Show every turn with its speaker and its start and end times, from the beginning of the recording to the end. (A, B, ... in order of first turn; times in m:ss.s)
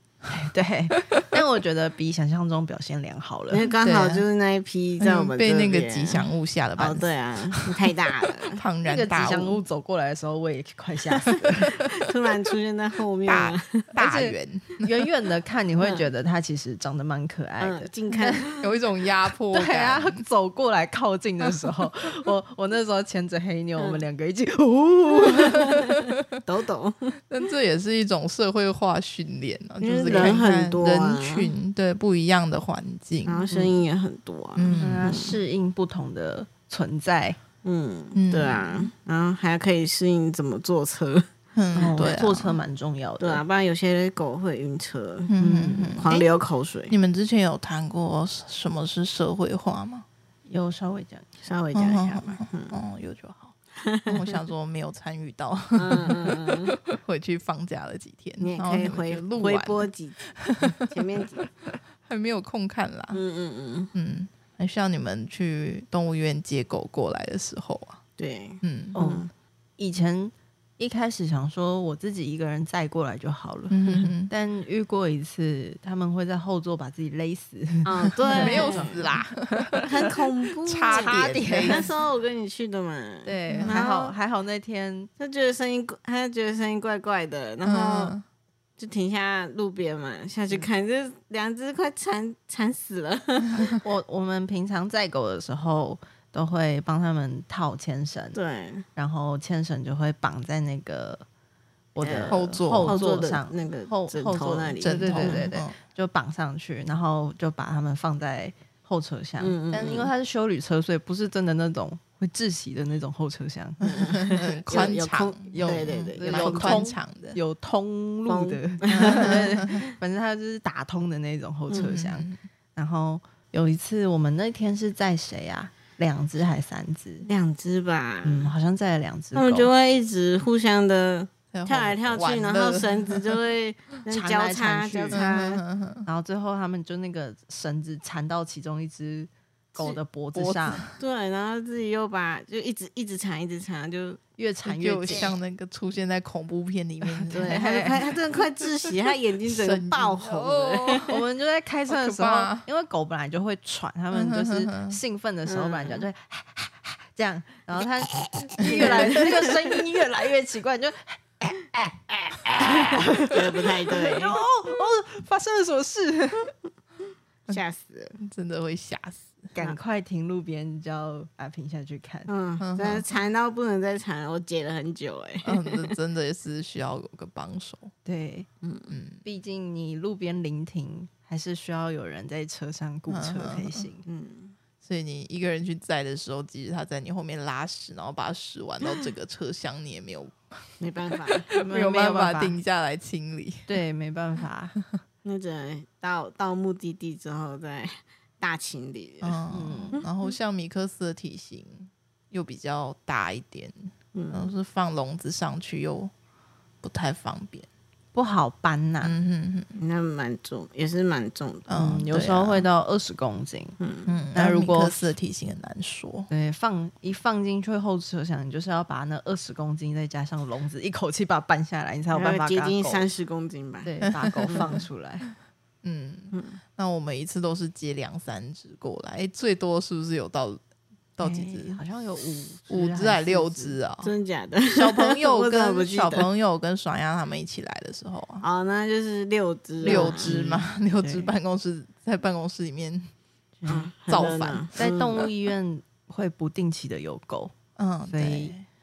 0:00.3-0:03.7 A
0:00.9-0:01.4 B
0:03.5-0:08.6 C
0:03.8-0:04.2 B
0:05.0-0:07.6 B
0:08.5-0:09.6 B
0:08.8-0:11.7 A
0:11.3-0:13.9 C
0:11.4-0:11.8 B
0:13.2-0:15.1 B
0:14.0-0:18.6 A
0:15.8-0:16.0 C
0:17.6-0:18.7 C
0:18.6-0:20.2 B
0:19.5-0:25.8 A
0:25.3-0:27.2 C
0:27.3-0:33.5 B
0:29.8-0:31.5 C
0:30.0-0:30.4 A
0:33.2-0:35.4 C
0:34.6-0:35.1 B
0:34.7-0:37.4 A
0:37.6-0:41.3 C
0:38.1-0:38.9 B
0:41.5-0:42.6 B
0:41.7-0:43.4 A
0:43.2-0:45.3 C
0:45.3-0:46.3 B
0:45.4-0:46.0 A
0:46.0-0:46.9 C
0:46.9-0:50.0 B
0:50.5-0:51.4 A
0:51.4-0:52.8 C
0:51.7-0:53.5 B
0:53.8-0:54.4 C
0:54.1-1:00.9 B
0:55.8-0:56.8 C
0:58.4-1:01.5 C
1:02.0-1:03.2 B
1:03.1-1:03.9 C
1:03.9-1:08.0 B
1:08.2-1:09.3 C
1:08.6-1:09.0 B
1:08.9-1:20.1 A
1:13.7-1:14.3 B
1:17.8-1:19.1 C
1:18.3-1:21.8 B
1:19.8-1:24.2 C
1:20.9-1:21.9 A
1:23.2-1:25.1 A
1:23.5-1:23.8 B
1:25.2-1:28.1 C
1:27.6-1:28.2 B
1:28.8-1:33.8 C
1:33.6-1:38.4 A
1:38.3-1:38.8 C
1:39.0-1:41.2 A
1:41.9-1:54.1 A
1:42.0-1:45.5 C
1:42.2-1:43.0 B
1:44.8-1:45.7 B
1:49.4-1:50.1 C
1:53.8-1:56.8 C
1:53.8-1:57.4 B
1:55.5-2:07.3 A
1:58.3-1:59.5 C
1:58.9-1:59.8 B
2:01.7-2:02.4 B
2:07.2-2:08.5 C
2:08.2-2:09.7 A
2:09.3-2:15.6 C
2:11.5-2:13.5 B
2:14.1-2:15.3 A
2:15.1-2:16.1 B
2:16.0-2:20.8 A
2:20.3-2:21.0 B
2:21.0-2:24.2 C
2:24.4-2:25.3 A
2:24.6-2:27.8 B
2:27.0-2:28.1 A
2:27.3-2:31.2 C
2:29.4-2:31.1 B
2:31.1-2:46.5 A
2:31.9-2:32.7 B
2:34.1-2:35.0 B
2:35.4-2:36.1 C
2:38.0-2:39.8 C
2:38.6-2:39.3 B
2:43.2-2:44.4 C
2:47.5-2:48.2 C
2:48.2-2:49.5 B
2:49.5-2:52.3 A
2:52.3-2:55.9 C
2:52.6-2:53.0 B
2:55.4-2:57.9 B
2:58.0-2:58.5 A
2:58.6-2:58.9 C
2:58.9-2:59.2 B
2:59.2-3:04.0 A
3:03.1-3:03.8 B
3:04.0-3:04.6 C
3:04.8-3:13.8 B
3:10.8-3:11.5 C
3:11.5-3:12.6 A
3:13.7-3:14.7 A
3:15.2-3:19.4 C
3:19.2-3:26.1 B
3:19.5-3:20.0 A
3:24.1-3:24.5 C
3:26.8-3:27.7 B
3:28.1-3:29.1 A
3:29.0-3:29.7 B
3:29.8-3:31.7 C
3:31.7-3:32.7 B
3:31.7-3:33.8 A
3:33.8-3:34.1 C
3:34.1-3:36.3 B
3:34.3-3:35.1 A
3:36.3-3:43.1 A
3:42.1-3:43.9 C
3:43.8-3:45.3 A
3:44.1-3:44.8 B
3:44.5-3:44.8 C
3:45.8-3:50.6 B
3:46.3-3:46.6 C
3:51.2-3:51.8 B
3:51.2-3:53.8 A
3:52.7-3:54.1 B
3:54.0-3:56.3 C
3:54.7-3:58.4 B
3:58.4-4:00.3 C
3:59.8-4:01.3 A
3:59.8-4:03.1 B
4:03.6-4:03.9 A
4:03.7-4:05.3 C
4:04.1-4:04.7 B
4:04.8-4:07.5 A
4:07.8-4:08.6 B
4:08.1-4:08.5 A